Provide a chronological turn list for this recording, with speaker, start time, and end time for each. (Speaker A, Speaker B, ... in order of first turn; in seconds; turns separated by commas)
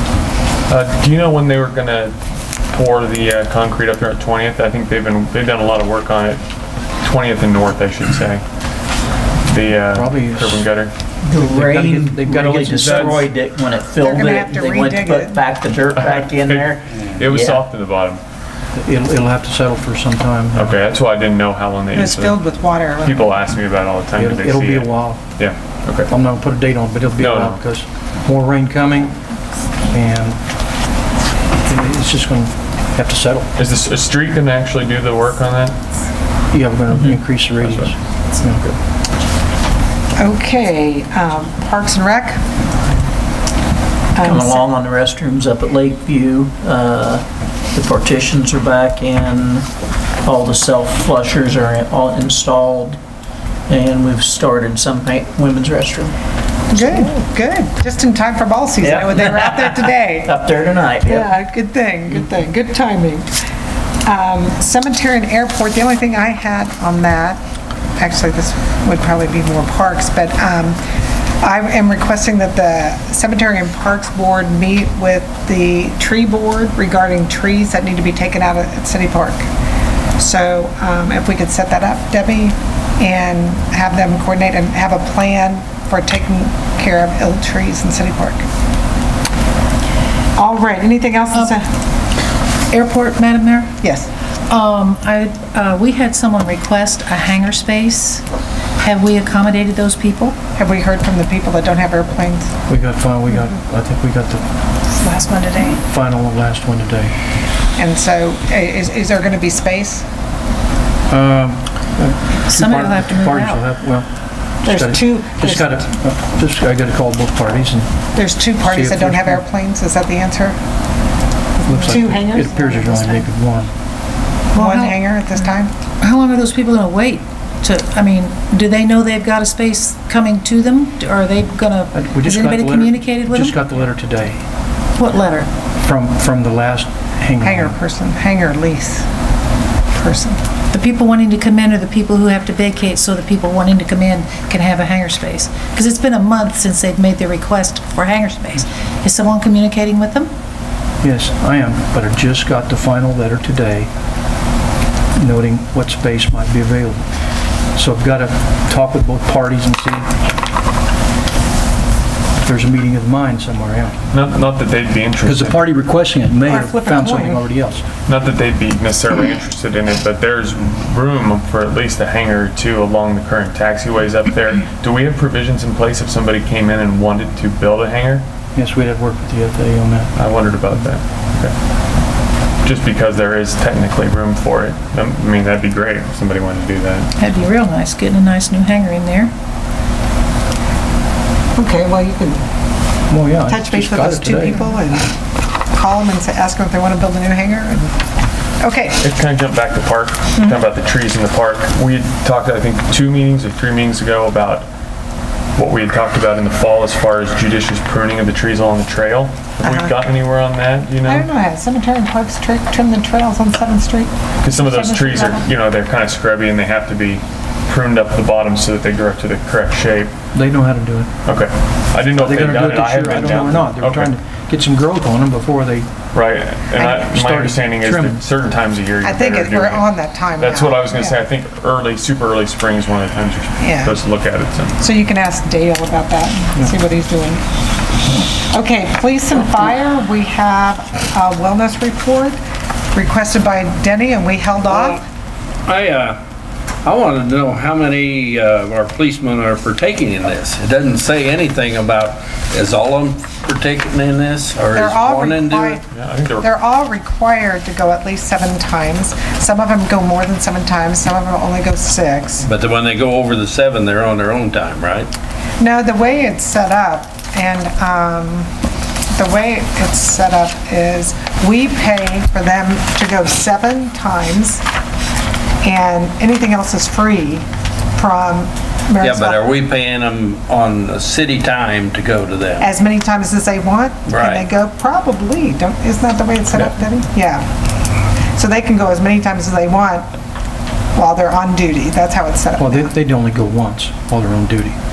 Speaker A: 0.7-2.1, Speaker A: 2.7-6.4, Speaker A: 7.0-8.4, Speaker A: 9.4-10.9, Speaker B: 9.9-10.7, Speaker C: 11.2-17.6, Speaker B: 11.4-13.3, Speaker A: 12.9-13.2, Speaker D: 14.0-15.5, Speaker A: 15.9-18.2, Speaker B: 18.8-20.8, Speaker A: 20.5-22.4, Speaker D: 21.9-23.2, Speaker A: 23.0-26.1, Speaker B: 24.2-25.2, Speaker B: 26.1-29.2, Speaker A: 27.2-27.6, Speaker B: 29.9-30.4, Speaker B: 31.6-33.5, Speaker A: 33.6-35.8, Speaker B: 36.5-38.7, Speaker C: 36.9-37.2, Speaker A: 37.6-37.9, Speaker D: 40.2-42.4, Speaker D: 44.1-44.7, Speaker C: 44.2-49.7, Speaker C: 50.2-53.0, Speaker C: 53.7-56.1, Speaker D: 56.7-60.3, Speaker C: 58.8-61.4, Speaker D: 61.0-63.3, Speaker D: 64.0-67.4, Speaker D: 68.0-70.8, Speaker D: 71.4-79.5, Speaker D: 80.2-88.4, Speaker D: 90.4-91.7, Speaker E: 92.7-93.8, Speaker D: 93.8-94.1, Speaker E: 94.5-98.2, Speaker E: 98.8-100.4, Speaker D: 100.6-102.5, Speaker B: 102.7-104.5, Speaker E: 104.9-105.8, Speaker B: 105.8-107.1, Speaker D: 107.8-110.0, Speaker B: 111.1-117.9, Speaker E: 112.5-113.6, Speaker D: 114.6-115.8, Speaker D: 118.2-120.6, Speaker B: 118.6-119.4, Speaker D: 121.6-123.2, Speaker B: 121.7-123.7, Speaker D: 124.5-125.7, Speaker E: 124.5-133.6, Speaker B: 131.9-134.4, Speaker E: 135.0-135.5, Speaker B: 135.8-137.8, Speaker D: 137.4-139.1, Speaker D: 139.9-140.4, Speaker E: 140.7-150.3, Speaker B: 151.0-153.9, Speaker B: 155.2-157.1, Speaker B: 157.7-160.1, Speaker B: 162.4-164.0, Speaker A: 164.1-165.6, Speaker B: 165.2-167.9, Speaker D: 166.5-167.4, Speaker A: 168.1-178.2, Speaker B: 178.6-180.1, Speaker A: 180.2-181.5, Speaker A: 182.6-187.1, Speaker E: 187.2-189.3, Speaker D: 191.6-192.4, Speaker B: 193.1-194.6, Speaker D: 193.5-195.2, Speaker D: 195.7-197.9, Speaker D: 198.6-199.0, Speaker A: 199.0-204.7, Speaker A: 205.6-211.3, Speaker D: 209.6-210.0, Speaker D: 211.0-215.5, Speaker A: 214.4-220.1, Speaker B: 220.3-221.1, Speaker A: 221.2-224.1, Speaker B: 222.2-225.9, Speaker A: 226.1-234.8, Speaker B: 226.8-228.2, Speaker D: 229.0-231.2, Speaker D: 233.6-234.0, Speaker D: 234.8-237.4, Speaker D: 238.5-242.4, Speaker D: 242.9-245.0, Speaker F: 244.7-245.0, Speaker F: 245.7-246.2, Speaker F: 246.8-255.8, Speaker D: 254.7-255.8, Speaker A: 255.9-256.5, Speaker D: 256.4-262.4, Speaker F: 262.4-265.1, Speaker D: 265.6-268.5, Speaker D: 269.1-274.6, Speaker D: 275.6-279.4, Speaker F: 279.0-282.7, Speaker D: 282.6-287.5, Speaker F: 284.1-284.4, Speaker D: 288.4-290.1, Speaker D: 290.9-292.9, Speaker B: 292.6-294.8